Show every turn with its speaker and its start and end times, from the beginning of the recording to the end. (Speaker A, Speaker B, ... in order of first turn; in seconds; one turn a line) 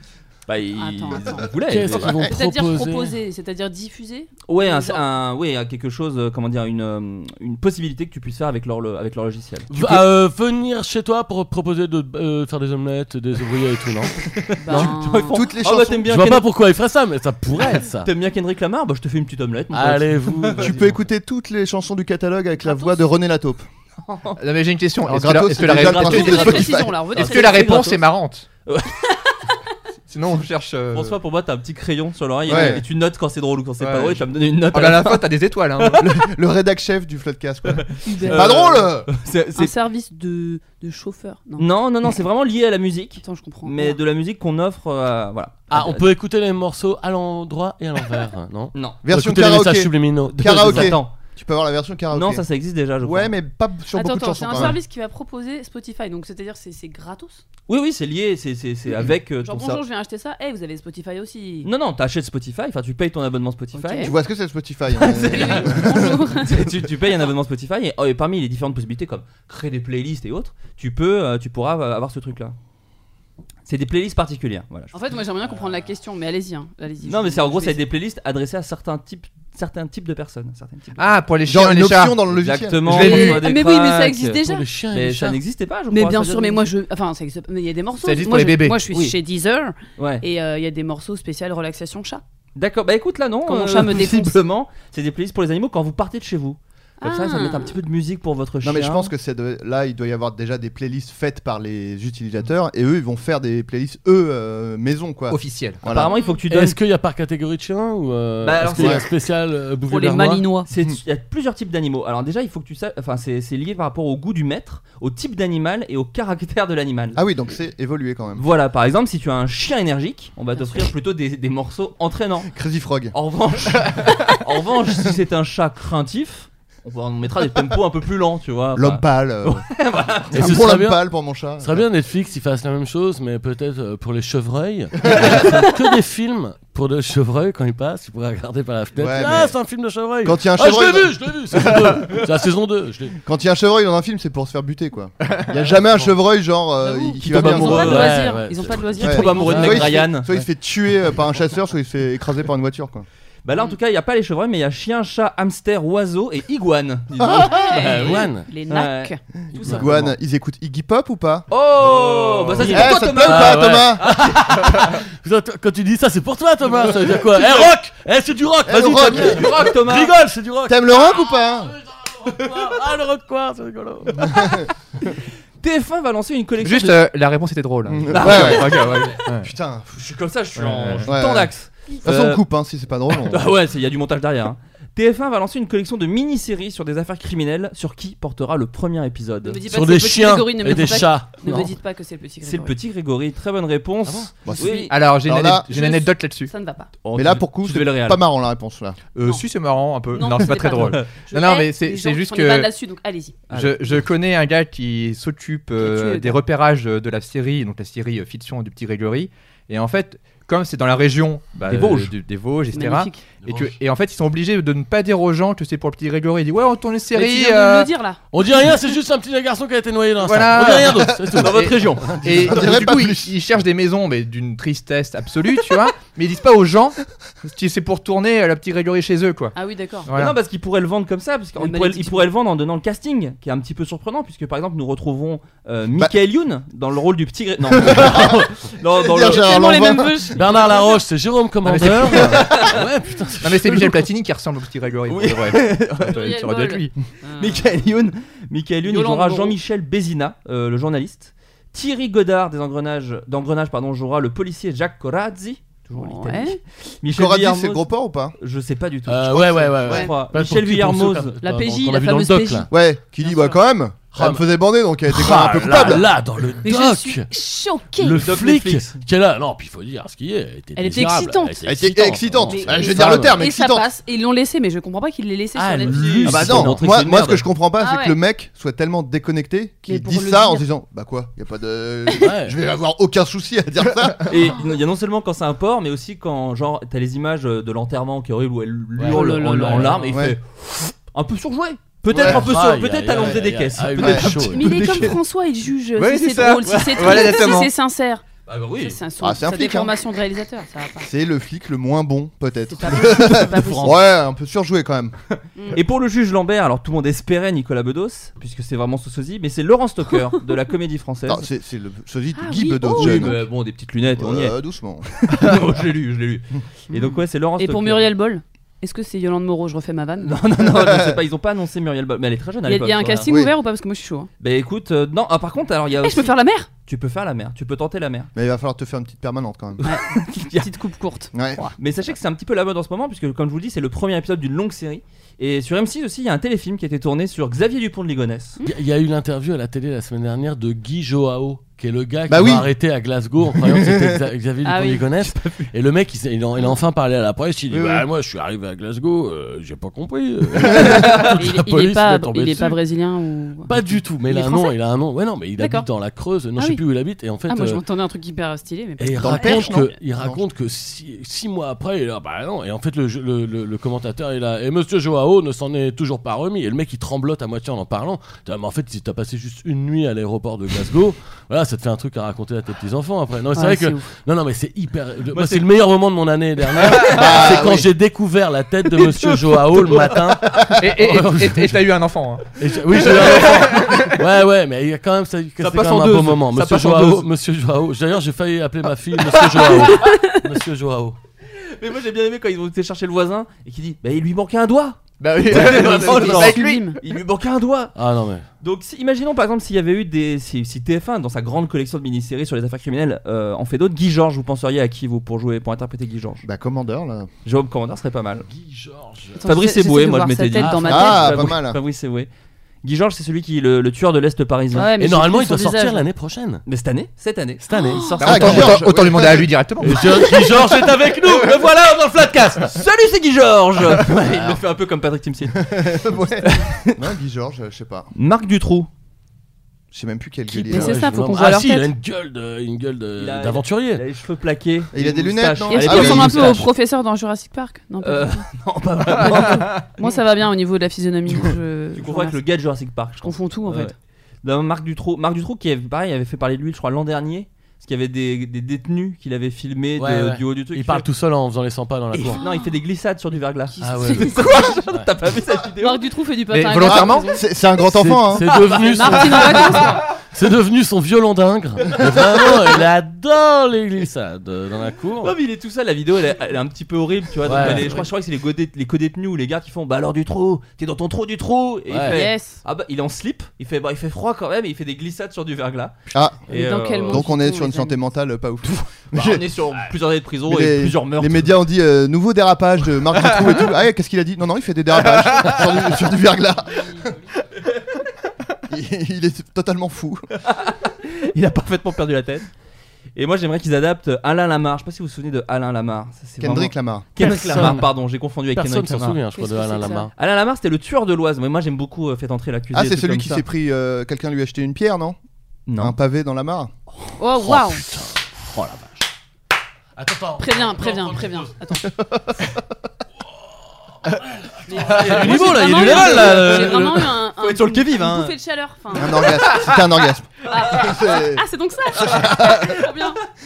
Speaker A: 0.5-2.2
Speaker B: 0.7-1.5
Speaker C: 1.7-3.1
Speaker B: 2.2-5.0
Speaker A: 4.5-10.0
Speaker C: 9.7-14.9
Speaker B: 14.6-15.4
Speaker A: 14.7-16.5
Speaker D: 15.3-16.1
Speaker C: 16.1-18.1
Speaker A: 17.6-20.8
Speaker C: 19.7-20.9
Speaker D: 20.6-23.6
Speaker B: 22.6-23.0
Speaker A: 24.1-24.4
Speaker E: 24.4-28.4
Speaker D: 25.1-27.0
Speaker A: 25.6-28.0
Speaker B: 26.0-28.0
Speaker A: 28.6-29.3
Speaker E: 30.1-31.2
Speaker A: 30.9-35.2
Speaker D: 32.5-32.8
Speaker E: 33.8-36.0
Speaker D: 35.9-39.1
Speaker A: 37.7-39.7
Speaker B: 38.0-38.6
Speaker B: 39.5-41.7
Speaker A: 41.6-46.1
Speaker B: 43.2-44.0
Speaker C: 45.7-50.9
Speaker A: 48.7-49.0
Speaker D: 49.0-52.4
Speaker A: 50.3-51.1
Speaker A: 52.1-53.3
Speaker D: 53.0-54.8
Speaker B: 53.9-57.4
Speaker A: 57.7-59.8
Speaker B: 59.4-61.7
Speaker A: 61.6-64.2
Speaker B: 63.7-64.1
Speaker D: 64.0-66.2
Speaker A: 65.0-72.5
Speaker B: 65.1-66.6
Speaker A: 73.7-74.9
Speaker B: 74.9-77.8
Speaker A: 77.0-81.1
Speaker E: 81.0-82.2
Speaker D: 81.5-83.2
Speaker A: 82.3-84.4
Speaker E: 82.8-83.4
Speaker B: 82.9-84.6
Speaker C: 84.4-85.4
Speaker A: 84.9-86.7
Speaker B: 85.9-92.2
Speaker E: 88.0-88.8
Speaker A: 90.0-90.2
Speaker A: 92.5-99.1
Speaker B: 93.5-94.4
Speaker B: 97.0-97.7
Speaker D: 98.6-106.2
Speaker E: 105.3-105.8
Speaker A: 105.8-106.8
Speaker B: 106.1-106.4
Speaker C: 106.5-110.5
Speaker A: 108.4-109.0
Speaker D: 108.8-109.0
Speaker B: 109.9-110.7
Speaker A: 110.7-117.2
Speaker D: 117.1-118.4
Speaker A: 118.3-122.5
Speaker D: 122.5-123.1
Speaker A: 123.1-130.6
Speaker D: 128.7-129.6
Speaker D: 130.3-131.8
Speaker C: 130.3-131.0
Speaker C: 131.6-143.2
Speaker D: 135.0-135.5
Speaker D: 138.9-139.6
Speaker D: 140.2-142.2
Speaker D: 143.2-148.1
Speaker B: 146.8-150.1
Speaker A: 147.2-150.3
Speaker C: 147.6-150.0
Speaker D: 149.0-153.1
Speaker A: 153.4-160.1
Speaker D: 157.2-157.8
Speaker B: 157.4-159.2
Speaker C: 157.6-158.5
Speaker D: 159.5-161.5
Speaker C: 159.6-159.9
Speaker A: 161.5-164.9
Speaker C: 161.8-174.6
Speaker D: 162.6-164.0
Speaker A: 167.3-167.7
Speaker D: 168.6-169.7
Speaker A: 169.0-170.1
Speaker D: 170.7-171.7
Speaker D: 174.2-174.7
Speaker A: 175.6-177.0
Speaker E: 176.6-179.5
Speaker D: 177.8-178.9
Speaker A: 178.1-179.2
Speaker D: 179.4-179.9
Speaker A: 179.9-182.4
Speaker E: 180.6-181.1
Speaker D: 181.1-183.5
Speaker A: 183.1-189.6
Speaker B: 189.4-192.7
Speaker C: 189.7-191.7
Speaker A: 192.4-194.9
Speaker D: 194.4-195.7
Speaker B: 194.6-194.9
Speaker E: 194.9-196.5
Speaker B: 195.7-196.9
Speaker A: 197.0-198.2
Speaker D: 197.1-199.0
Speaker E: 199.1-202.7
Speaker B: 200.1-203.4
Speaker A: 200.6-201.1
Speaker A: 203.5-203.9
Speaker E: 203.5-217.9
Speaker B: 205.8-206.4
Speaker A: 211.6-212.1
Speaker B: 212.7-213.2
Speaker C: 213.4-213.8
Speaker B: 217.1-218.2
Speaker C: 218.3-222.2
Speaker E: 220.2-229.5
Speaker A: 221.3-222.8
Speaker D: 222.3-223.3
Speaker B: 229.5-230.1
Speaker E: 230.1-230.3
Speaker A: 230.1-239.8
Speaker B: 231.6-232.2
Speaker D: 237.7-240.3
Speaker B: 239.2-241.0
Speaker C: 240.3-244.0
Speaker E: 241.6-242.5
Speaker A: 242.1-242.8
Speaker E: 243.4-246.9
Speaker A: 245.1-246.4
Speaker B: 246.0-247.7
Speaker A: 247.4-261.4
Speaker B: 248.8-249.6
Speaker B: 255.9-256.6
Speaker D: 257.1-258.3
Speaker C: 259.1-262.7
Speaker B: 261.4-263.6
Speaker D: 262.7-266.1
Speaker C: 264.1-264.4
Speaker C: 265.1-267.3
Speaker B: 266.6-268.2
Speaker C: 267.9-273.4
Speaker A: 268.2-269.0
Speaker B: 270.8-271.6
Speaker D: 271.6-273.9
Speaker B: 272.4-276.3
Speaker C: 275.6-276.9
Speaker A: 275.8-277.4
Speaker D: 276.2-284.5
Speaker B: 277.8-278.2
Speaker B: 279.8-280.7
Speaker C: 282.1-282.6
Speaker A: 284.3-295.1
Speaker C: 289.0-290.1
Speaker B: 289.0-290.1
Speaker D: 290.1-290.4
Speaker D: 292.1-292.5
Speaker C: 292.1-295.1
Speaker D: 294.0-294.2
Speaker B: 294.3-298.2
Speaker E: 295.9-297.7
Speaker A: 298.5-299.0
Speaker B: 298.8-301.1
Speaker D: 299.2-300.0
Speaker D: 301.0-305.1
Speaker B: 302.7-304.0
Speaker A: 302.9-304.0
Speaker B: 305.6-305.8
Speaker A: 305.7-311.4
Speaker D: 311.3-313.4
Speaker B: 312.3-313.4
Speaker A: 312.9-314.6
Speaker D: 314.2-315.1
Speaker A: 315.1-318.1
Speaker B: 316.9-320.4
Speaker A: 320.2-323.3
Speaker D: 320.6-321.2
Speaker B: 322.6-324.3
Speaker D: 323.2-323.5
Speaker A: 324.4-328.3
Speaker B: 326.0-326.7
Speaker D: 328.3-329.8
Speaker A: 329.8-330.7
Speaker B: 329.8-331.7
Speaker D: 331.3-331.6
Speaker A: 331.8-338.6
Speaker C: 338.6-352.8
Speaker D: 342.3-342.7
Speaker D: 343.5-344.2
Speaker B: 344.6-345.1
Speaker A: 345.2-345.7
Speaker D: 347.7-348.1
Speaker B: 350.8-354.8
Speaker A: 351.0-351.2
Speaker C: 353.6-357.8
Speaker B: 355.6-355.9
Speaker B: 356.6-356.8
Speaker B: 357.4-359.9
Speaker C: 359.0-381.9
Speaker D: 359.2-360.4
Speaker B: 373.5-374.1
Speaker A: 375.3-375.7
Speaker A: 376.8-377.5
Speaker D: 377.0-377.9
Speaker A: 378.9-380.1
Speaker E: 380.8-382.5
Speaker C: 382.6-391.2
Speaker E: 383.1-384.1
Speaker A: 385.6-387.3
Speaker E: 385.8-386.1
Speaker B: 389.9-390.4
Speaker A: 391.5-397.9
Speaker E: 395.2-396.9
Speaker B: 395.6-397.0
Speaker C: 397.9-398.4
Speaker A: 398.6-406.4
Speaker D: 406.4-407.3
Speaker A: 407.4-408.5
Speaker C: 408.5-409.5
Speaker B: 409.4-411.4
Speaker A: 409.4-412.3
Speaker C: 410.6-411.3
Speaker D: 410.8-411.8
Speaker A: 412.8-414.9
Speaker B: 414.7-416.0
Speaker C: 415.0-416.6
Speaker A: 416.6-418.8
Speaker C: 417.7-418.6
Speaker B: 417.7-418.2
Speaker E: 418.2-420.3
Speaker D: 418.2-419.5
Speaker C: 419.8-422.8
Speaker A: 422.6-427.0
Speaker C: 424.2-424.6
Speaker D: 425.6-428.1
Speaker A: 428.1-428.9
Speaker D: 429.9-431.0
Speaker B: 430.6-431.9
Speaker C: 430.6-434.0
Speaker A: 433.2-436.7
Speaker D: 434.9-436.6
Speaker B: 435.7-438.4
Speaker A: 438.0-440.1
Speaker B: 439.1-442.4
Speaker A: 441.9-451.1
Speaker B: 443.2-443.9
Speaker C: 450.0-452.4
Speaker A: 452.1-456.1
Speaker B: 452.3-452.8
Speaker B: 453.7-454.8
Speaker C: 453.8-455.1
Speaker B: 455.8-457.4
Speaker E: 456.5-457.4
Speaker D: 456.8-458.7
Speaker C: 457.8-465.3
Speaker B: 458.7-460.0
Speaker A: 465.2-475.9
Speaker C: 467.4-468.0
Speaker C: 471.9-472.2
Speaker B: 472.1-472.6
Speaker D: 476.1-476.4
Speaker A: 476.5-477.3
Speaker B: 476.5-477.9
Speaker D: 477.1-479.5
Speaker A: 479.1-481.5
Speaker D: 480.5-487.1
Speaker B: 486.7-487.2
Speaker D: 488.7-490.2
Speaker A: 490.4-492.5
Speaker A: 493.1-499.2
Speaker D: 496.4-497.1
Speaker C: 497.2-497.9
Speaker C: 498.5-500.1
Speaker B: 499.3-500.1
Speaker A: 500.1-503.4
Speaker D: 502.7-505.2
Speaker A: 505.7-505.9
Speaker D: 505.8-506.7
Speaker B: 507.2-507.8
Speaker C: 507.4-509.0
Speaker C: 510.0-511.5
Speaker B: 510.4-511.9
Speaker D: 512.0-512.5
Speaker C: 514.0-517.1
Speaker B: 514.7-519.6
Speaker A: 515.0-518.3
Speaker D: 518.9-521.4
Speaker B: 520.5-523.2
Speaker A: 522.0-523.0